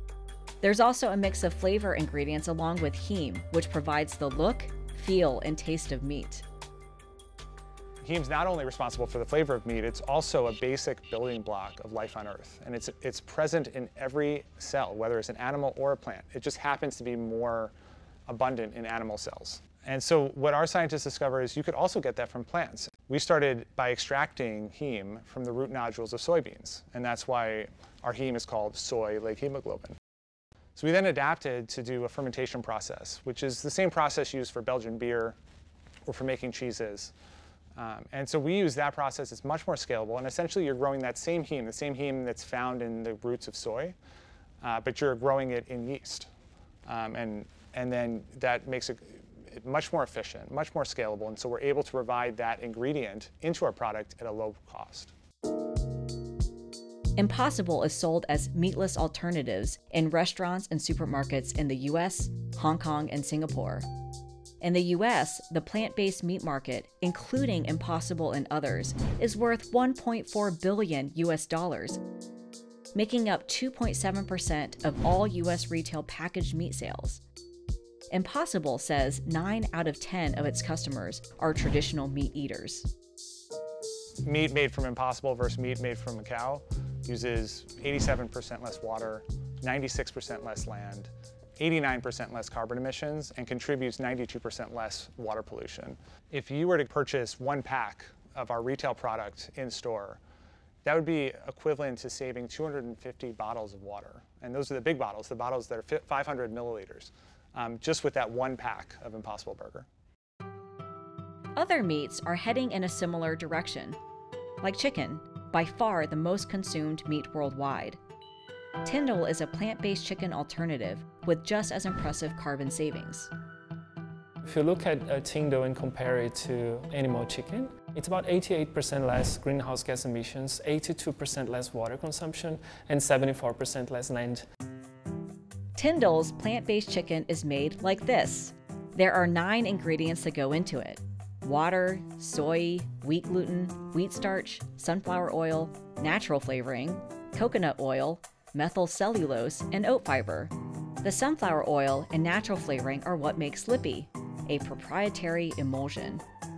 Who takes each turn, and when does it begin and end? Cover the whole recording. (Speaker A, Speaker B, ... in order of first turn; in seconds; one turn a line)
Speaker A: 0.6-6.4
Speaker B: 8.0-17.7
Speaker B: 18.3-29.9
Speaker B: 30.8-35.4
Speaker B: 36.1-37.1
Speaker B: 37.8-43.9
Speaker B: 44.6-46.3
Speaker B: 46.9-55.1
Speaker A: 57.2-63.9
Speaker A: 64.6-72.0
Speaker A: 72.9-77.2
Speaker A: 78.1-82.9
Speaker B: 84.2-91.1
Speaker B: 91.6-100.2
Speaker B: 100.8-109.9
Speaker A: 111.5-114.0
Speaker A: 114.6-118.0
Speaker A: 118.8-123.3
Speaker C: 124.4-134.4
Speaker A: 135.8-156.2